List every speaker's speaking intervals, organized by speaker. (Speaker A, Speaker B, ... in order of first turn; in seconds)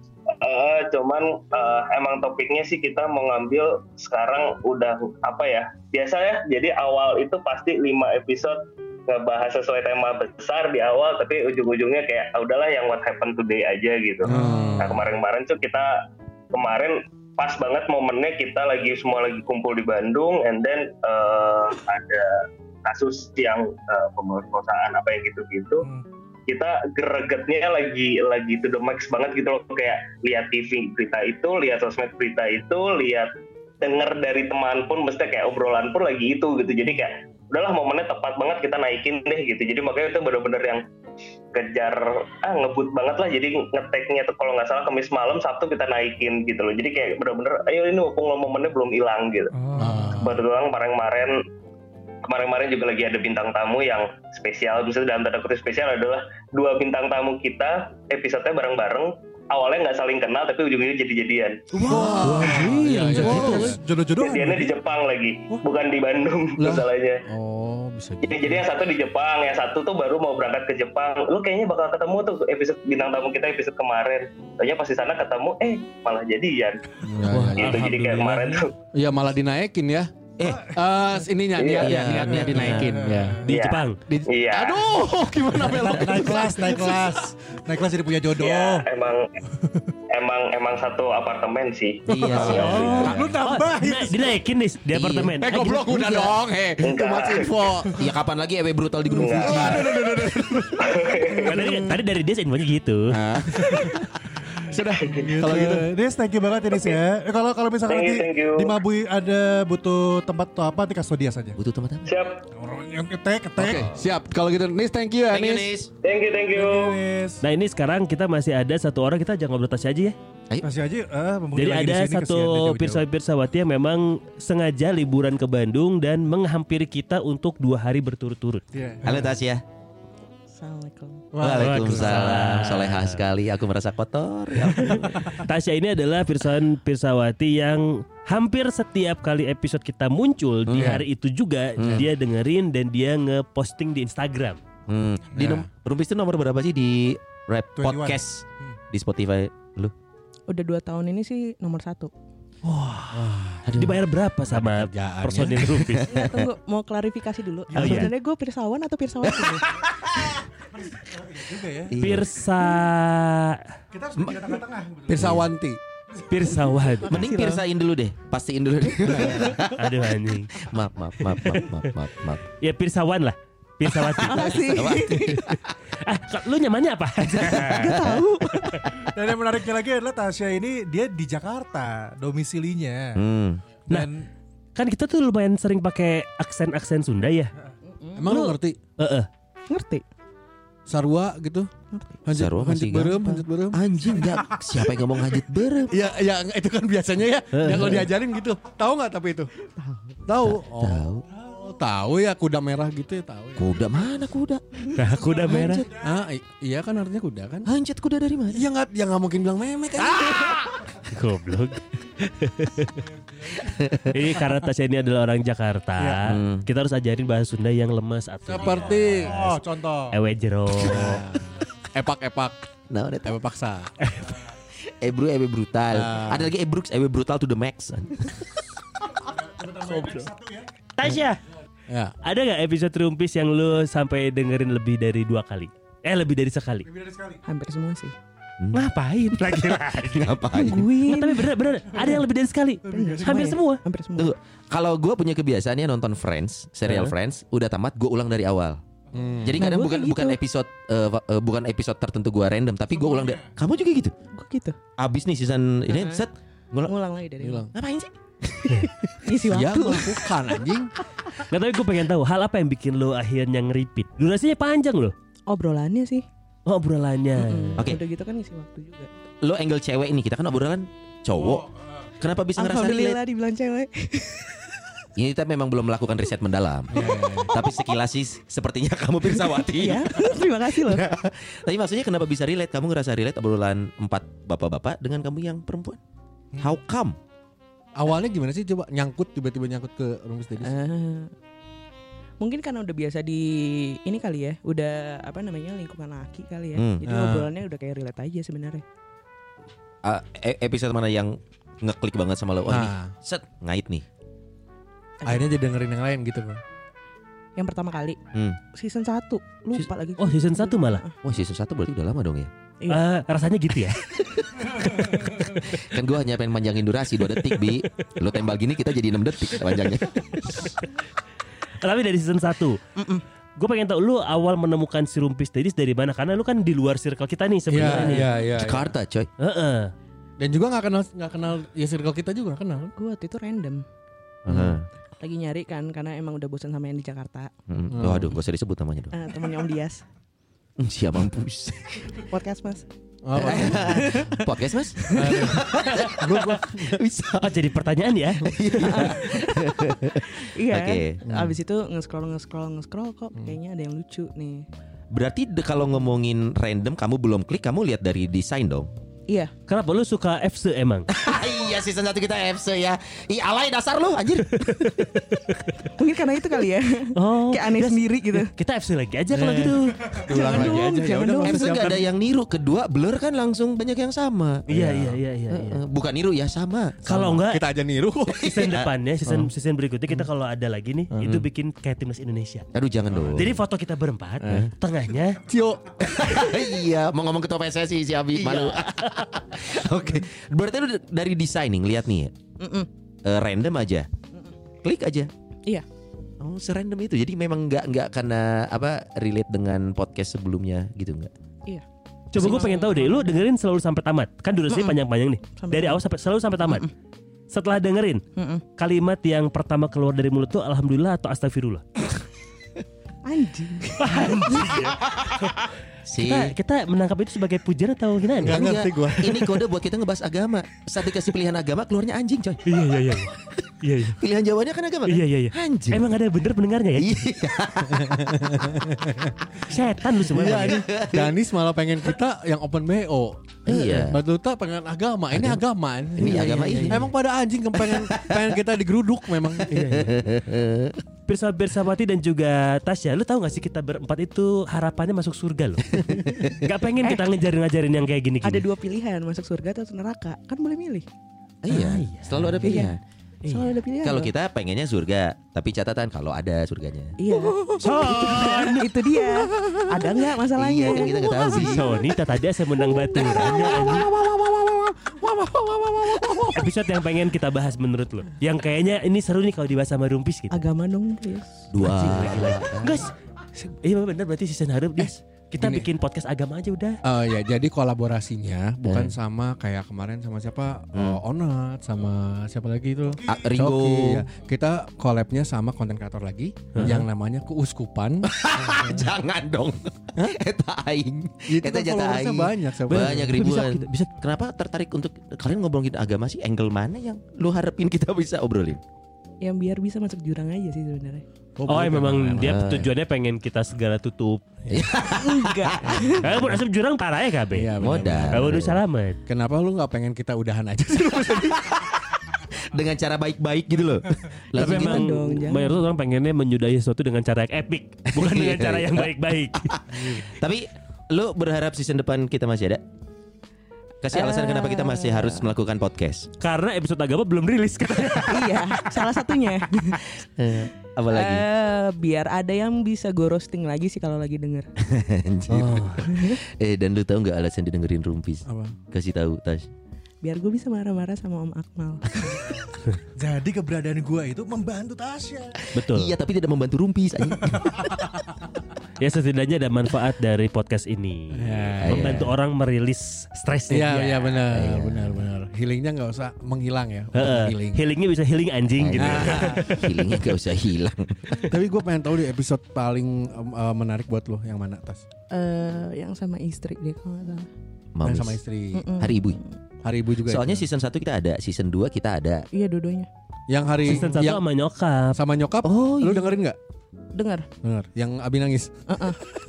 Speaker A: 0.3-15.9, 16.5-25.9, 26.5-33.3, 33.8-40.8, 41.5-49.5, 50.2-51.4, 52.2-61.6, 64.2-67.2, 68.2-76.8, 77.5-78.7, 81.5-82.0, 83.5-84.8, 88.4-89.3, 90.1-93.1, 96.8-97.6, 99.1-99.8, 100.8-101.5, 107.9-108.8, 112.0-112.4, 116.0-117.0
Speaker B: 14.2-15.1, 49.8-50.4, 61.9-63.8, 66.6-68.6, 77.0-77.8, 78.9-83.5, 84.0-87.0, 92.3-93.4, 95.4-98.0, 99.3-101.2, 103.1-104.1, 104.7-105.9, 113.5-115.7, 131.4-132.1, 140.7-141.0, 145.3-145.7, 153.1-153.8, 154.5-155.9, 165.1-165.8, 169.1-169.6, 188.2-188.8, 190.9-191.7, 192.2-193.8, 195.9-199.5, 200.3-203.7, 206.0-207.7, 208.5-210.8, 218.5-219.4, 220.8-222.6, 223.2-223.9, 225.9-226.5, 231.9-232.1, 249.1-249.7, 257.4-257.7, 259.4-260.9, 276.9-277.5, 287.9-290.7, 297.0-297.5, 302.7-303.1, 305.2-306.6, 327.7-328.9, 330.4-332.9, 334.5-334.7, 337.9-338.3, 343.2-344.2, 345.1-347.0, 351.2-351.5, 369.3-372.0, 374.7-375.2, 377.1-378.5, 379.2-379.5, 381.1-381.4, 384.4-384.7, 385.4-386.1, 418.4-419.5, 427.9-429.3, 430.2-440.1, 463.2-466.7, 475.6-475.9, 477.0-488.9, 491.5-493.4, 501.6-502.6, 507.5-508.6, 509.3-511.8, 519.9-520.2, 538.5-538.8, 551.3-552.3, 553.7-557.8, 559.0-559.9, 561.4-565.0, 568.0-568.9, 569.8-570.6, 573.5-574.4, 575.1-576.6, 577.6-578.7
Speaker C: 14.3-14.7, 49.5-50.4, 61.9-64.8, 80.5-80.8, 82.2-83.5, 85.6-88.9, 92.2-94.3, 105.2-111.6, 112.5-113.9, 116.5-117.4, 120.6-123.0, 128.7-129.2, 147.8-148.8, 157.7-158.0, 160.7-162.0, 163.9-165.4, 166.2-166.4, 179.0-183.2, 183.9-184.3, 205.1-206.2, 218.5-220.2, 229.2-230.7, 236.8-237.4, 242.9-243.5, 253.0-253.3, 271.4-272.1, 483.1-483.5, 543.2-545.5, 547.4-547.8
Speaker D: 61.8-63.8, 77.3-78.6, 83.5-84.0, 93.4-95.9, 101.4-103.1, 117.4-120.2, 121.5-128.6, 131.5-133.2, 134.8-144.6, 152.6-156.1, 157.7-158.1, 162.0-163.6, 166.3-167.2, 169.6-170.6, 172.6-174.7, 176.0-177.9, 184.8-187.5, 188.2-189.3, 197.5-198.1, 204.9-205.8, 211.0-213.0, 214.1-219.5, 220.1-221.2, 229.9-230.2, 230.9-231.4, 232.2-236.9, 238.7-243.8, 261.5-265.1, 266.7-267.8, 310.2-311.0, 312.9-314.0, 314.8-315.1, 320.3-320.7, 321.8-322.8, 323.6-328.3, 329.4-329.9, 347.4-349.1, 359.7-361.1, 364.7-365.6, 367.1-370.2, 374.7-375.8, 377.0-377.6, 378.3-382.6, 383.2-385.4, 388.5-389.3, 402.3-406.9, 407.5-408.2, 408.8-411.8, 414.0-415.6, 416.2-418.6, 422.7-424.2, 425.1-427.1, 429.6-430.8, 436.2-436.9, 439.7-440.2, 441.3-446.0, 446.5-448.6, 451.7-452.8, 457.8-458.9, 461.5-464.1, 466.5-470.6, 471.8-477.0, 492.9-494.1, 501.7-504.4, 506.2-507.7, 508.3-509.2, 514.5-519.7, 526.4-528.7, 535.5-536.0, 545.7-546.1, 549.0-554.4, 557.1-559.9, 573.8-575.1
Speaker E: 80.4-80.7, 81.8-83.0, 86.1-86.4, 92.1-93.2, 94.9-96.3, 97.9-99.9, 111.6-112.1, 115.3-115.9, 129.0-129.6, 131.4-135.2, 140.7-141.0, 141.8-142.0, 144.9-149.9, 153.7-154.0, 155.9-156.5, 161.9-162.3, 165.2-165.4, 167.1-169.8, 170.6-172.4, 174.3-175.6, 177.3-178.9, 183.2-183.6, 192.3-196.0, 200.4-201.2, 203.6-204.9, 207.7-208.7, 213.6-214.1, 216.2-216.6, 222.9-223.3, 224.8-228.3, 238.6-238.9, 239.4-240.9, 244.2-248.8, 249.4-254.1, 255.0-256.9, 257.7-258.8, 269.4-271.7, 272.2-273.2, 275.2-286.0, 286.6-287.1, 296.7-297.0, 300.0-304.0, 308.3-308.6, 311.2-312.5, 314.6-320.6, 327.9-329.3, 334.4-334.9, 337.7-339.3, 340.8-342.2, 343.4-347.7, 348.4-351.2, 355.1-358.9, 361.1-365.0, 371.4-374.7, 375.5-377.0, 378.5-378.9, 382.7-383.6, 386.0-392.3, 393.2-394.1, 394.8-395.3, 396.4-401.3, 416.1-416.5, 418.4-422.8, 424.1-426.1, 427.0-428.3, 430.6-431.4, 433.6-434.2, 435.3-435.6, 436.1-437.1, 437.8-438.6, 439.5-441.0, 445.9-446.6, 451.6-453.0, 454.0-457.1, 460.6-461.9, 471.7-473.0, 478.8-479.1, 480.9-481.2, 483.3-484.2, 488.3-498.8, 502.4-502.9, 504.7-506.2, 507.8-508.8, 511.3-515.1, 518.1-522.8, 524.0-526.3, 530.4-531.5, 534.8-539.7, 545.8-547.9, 551.8-552.3, 554.5-555.2, 558.8-561.4, 567.9-568.4, 569.0-569.4, 570.2-572.5, 575.6-576.1
Speaker F: 130.5-131.3, 150.5-152.1, 156.1-159.7, 167.0-167.6, 174.1-175.4, 177.4-178.7, 187.9-188.3, 189.7-190.0, 191.9-192.2, 199.8-200.2, 237.4-238.1, 240.5-241.6, 242.8-244.3, 249.6-250.4, 254.3-254.8, 255.9-256.2, 256.9-257.7, 259.2-260.2, 265.5-266.2, 267.3-269.1, 272.6-274.6, 277.0-277.5, 279.3-281.1, 290.6-291.3, 292.4-298.8, 305.2-305.5, 307.6-308.2, 308.7-311.2, 322.9-323.2, 332.9-333.8, 335.2-337.5, 339.1-340.0, 342.2-342.8, 343.4-345.5, 348.8-354.6, 366.0-368.5, 370.2-371.8, 392.6-392.9, 402.4-403.4, 404.7-405.0, 405.6-406.0, 408.4-408.6, 413.2-414.7, 448.4-451.1, 452.6-454.3, 457.2-461.8, 470.5-471.7, 499.4-501.2, 505.1-506.2, 514.5-515.8, 524.1-525.5, 528.2-530.0, 531.1-534.7, 536.0-536.4, 540.2-542.0, 565.3-567.5, 568.7-569.5, 572.5-573.1, 576.0-576.3, 577.1-577.5, 578.9-579.2